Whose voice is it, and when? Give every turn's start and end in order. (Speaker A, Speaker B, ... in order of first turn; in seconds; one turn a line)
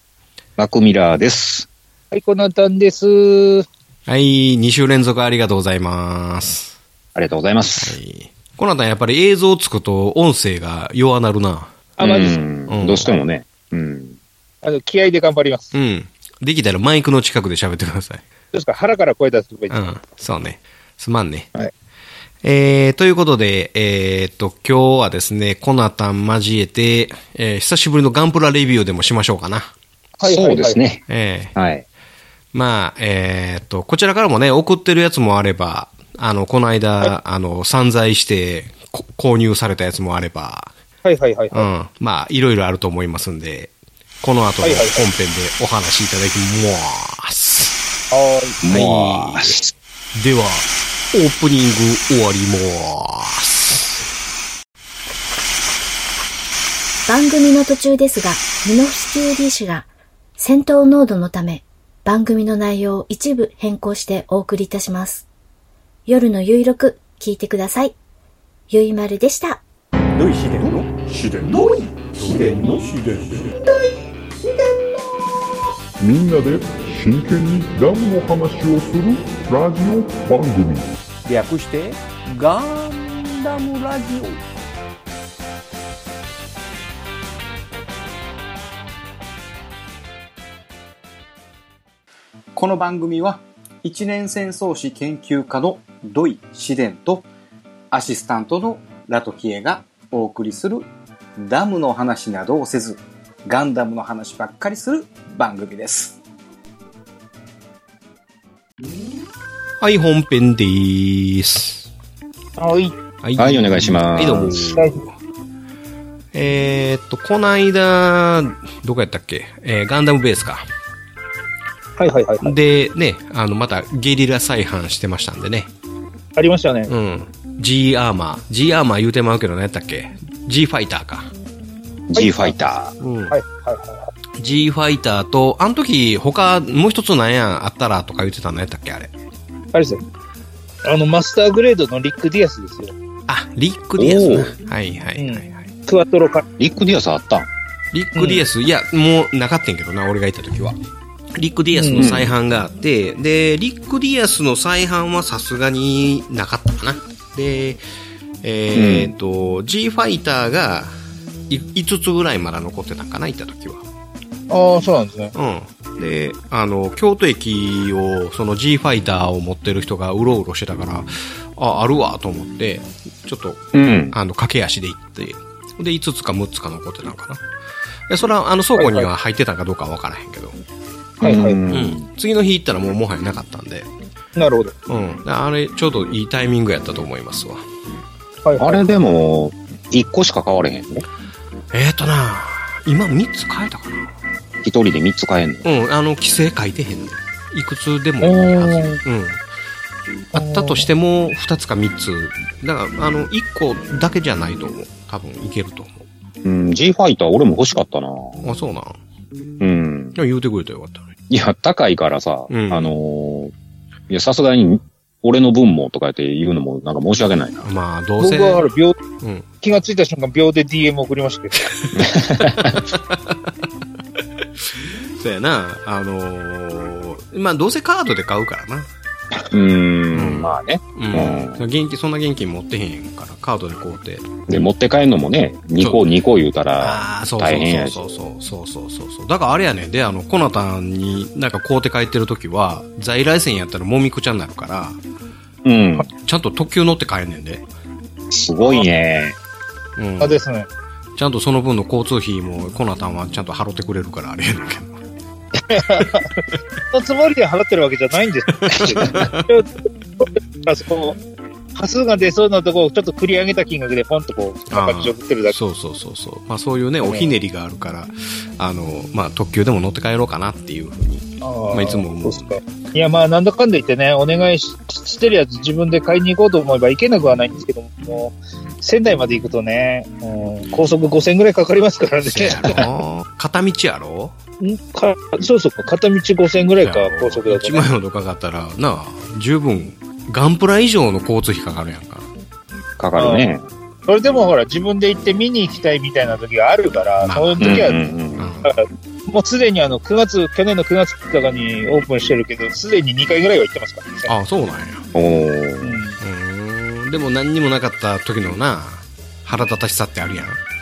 Speaker A: 0.6-1.7
Speaker B: 2.1-3.6
Speaker C: 4.1-6.8
Speaker A: 7.1-8.0
Speaker C: 7.8-11.7
Speaker B: 12.0-12.4
Speaker A: 12.0-14.2
Speaker C: 12.7-13.1
Speaker B: 14.6-15.7
Speaker C: 15.7-18.2
Speaker B: 18.5-19.8
Speaker C: 19.7-21.5
Speaker C: 22.4-29.7
Speaker B: 30.2-30.8
Speaker A: 30.2-31.0
Speaker C: 31.1-31.5
Speaker A: 31.5-31.8
Speaker C: 32.5-40.7
Speaker B: 41.0-41.7
Speaker C: 41.5-47.8
Speaker B: 44.6-45.0
Speaker B: 48.1-48.6
Speaker A: 48.6-49.7
Speaker C: 48.7-49.6
Speaker C: 50.1-54.0
Speaker D: 57.1-59.9
Speaker D: 60.4-65.2
Speaker D: 66.1-67.9
Speaker D: 68.7-69.6
Speaker E: 70.2-73.5
Speaker F: 76.0-80.9
Speaker E: 81.2-84.4
Speaker E: 92.5-97.3
Speaker E: 97.9-106.2
Speaker C: 109.8-111.9
Speaker B: 112.6-112.9
Speaker C: 113.2-115.1
Speaker A: 113.4-114.6
Speaker B: 114.5-115.0
Speaker C: 116.3-120.6
Speaker B: 122.0-122.5
Speaker C: 122.4-125.7
Speaker B: 126.3-126.9
Speaker C: 126.9-131.3
Speaker A: 132.1-132.9
Speaker B: 132.2-132.5
Speaker C: 133.0-133.3
Speaker B: 133.3-134.1
Speaker C: 134.4-139.1
Speaker B: 139.7-140.0
Speaker B: 140.8-142.9
Speaker C: 143.3-145.7
Speaker A: 144.0-144.5
Speaker B: 145.2-146.4
Speaker A: 146.6-147.5
Speaker C: 147.9-150.8
Speaker C: 151.3-157.8
Speaker B: 151.8-152.1
Speaker A: 151.9-152.3
Speaker C: 158.4-160.9
Speaker A: 158.7-159.1
Speaker C: 161.5-163.8
Speaker B: 164.5-165.3
Speaker C: 165.3-177.4
Speaker A: 173.7-174.1
Speaker C: 178.1-180.6
Speaker B: 178.8-179.1
Speaker B: 181.2-181.6
Speaker A: 181.2-182.1
Speaker C: 181.7-183.9
Speaker B: 184.3-184.7
Speaker C: 184.9-187.6
Speaker B: 188.4-188.8
Speaker A: 188.6-191.0
Speaker C: 191.7-194.1
Speaker A: 194.6-195.7
Speaker C: 195.6-199.4
Speaker B: 200.3-200.8
Speaker C: 200.3-206.0
Speaker A: 206.4-208.4
Speaker C: 208.4-209.0
Speaker A: 209.6-210.2
Speaker C: 210.1-211.1
Speaker A: 211.3-213.5
Speaker C: 212.5-212.9
Speaker A: 214.1-217.7
Speaker C: 217.6-218.7
Speaker B: 218.2-219.0
Speaker C: 219.2-219.4
Speaker B: 219.6-221.7
Speaker A: 221.9-222.8
Speaker C: 222.6-223.5
Speaker C: 225.2-228.9
Speaker A: 229.5-231.6
Speaker C: 230.1-234.3
Speaker A: 234.5-238.1
Speaker C: 236.8-245.0
Speaker A: 245.6-246.1
Speaker C: 246.2-247.7
Speaker A: 248.3-249.4
Speaker B: 248.6-248.9
Speaker C: 250.0-250.4
Speaker B: 250.2-250.7
Speaker C: 251.2-255.0
Speaker B: 255.7-261.2
Speaker C: 258.7-259.5
Speaker B: 261.7-265.6
Speaker C: 264.7-272.6
Speaker B: 267.0-267.3
Speaker B: 271.4-282.8
Speaker C: 282.2-284.3
Speaker B: 284.6-287.9
Speaker C: 286.8-292.3
Speaker A: 293.0-293.6
Speaker B: 293.2-293.5
Speaker B: 294.1-298.0
Speaker C: 297.2-297.8
Speaker A: 297.6-298.5
Speaker C: 298.4-298.8
Speaker B: 298.6-304.3
Speaker C: 304.3-305.0
Speaker A: 305.1-306.0
Speaker B: 305.8-306.2
Speaker C: 306.2-310.6